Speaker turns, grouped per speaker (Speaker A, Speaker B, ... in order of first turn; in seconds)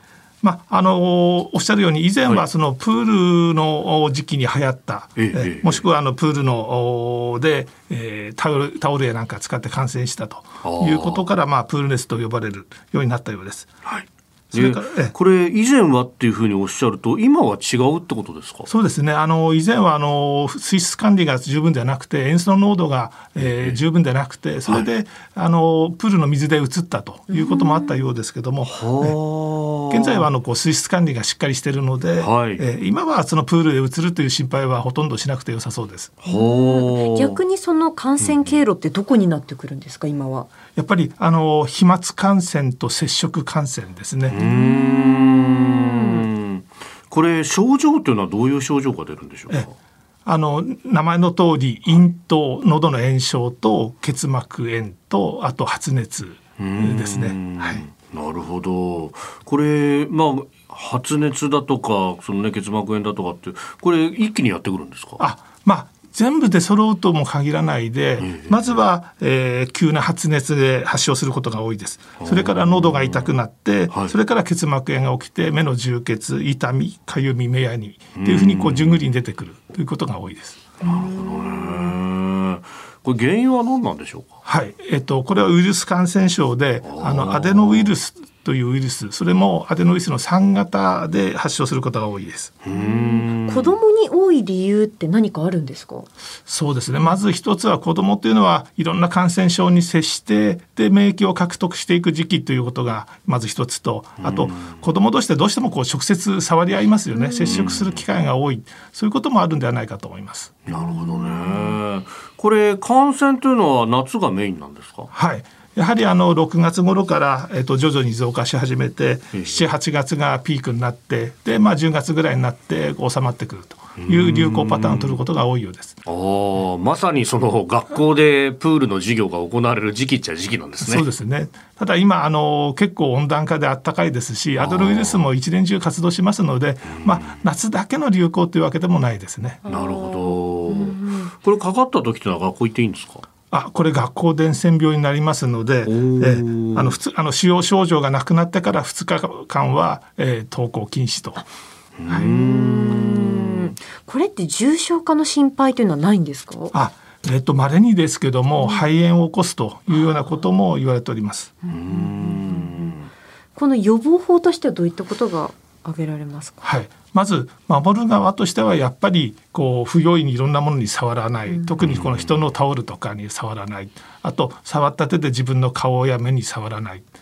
Speaker A: 0.4-13.7, 14.5-15.1, 18.7-29.2, 29.9-36.2, 40.7-44.4, 50.3-57.8, 65.2-80.7, 84.4-92.6, 96.5-110.6, 115.1-126.0, 130.8-139.6, 143.5-151.4, 156.7-161.5, 166.6-177.1
Speaker B: 5.2-5.8, 10.6-11.2, 13.8-18.7, 23.4-23.8, 28.6-30.3, 32.2-32.6, 36.3-37.4, 38.2-38.6, 44.3-49.7, 56.6-65.2, 68.2-68.8, 72.2-73.3, 73.9-74.2, 78.2-79.0, 80.8-84.4, 86.8-88.0, 92.6-93.8, 104.2-104.8, 107.4-108.0, 110.7-115.1, 119.3-119.6, 124.0-125.2, 126.1-131.0, 134.6-135.3, 136.9-137.4, 139.7-143.2, 145.8-147.0, 152.0-153.8, 161.7-163.1, 171.8-172.4
Speaker C: 27.3-28.0, 36.2-40.5, 44.4-46.3, 80.8-81.9, 92.7-96.1, 107.1-107.6, 110.8-111.6, 139.6-141.3, 152.1-156.7, 158.6-158.9, 161.6-162.9, 163.5-166.6, 171.5-171.8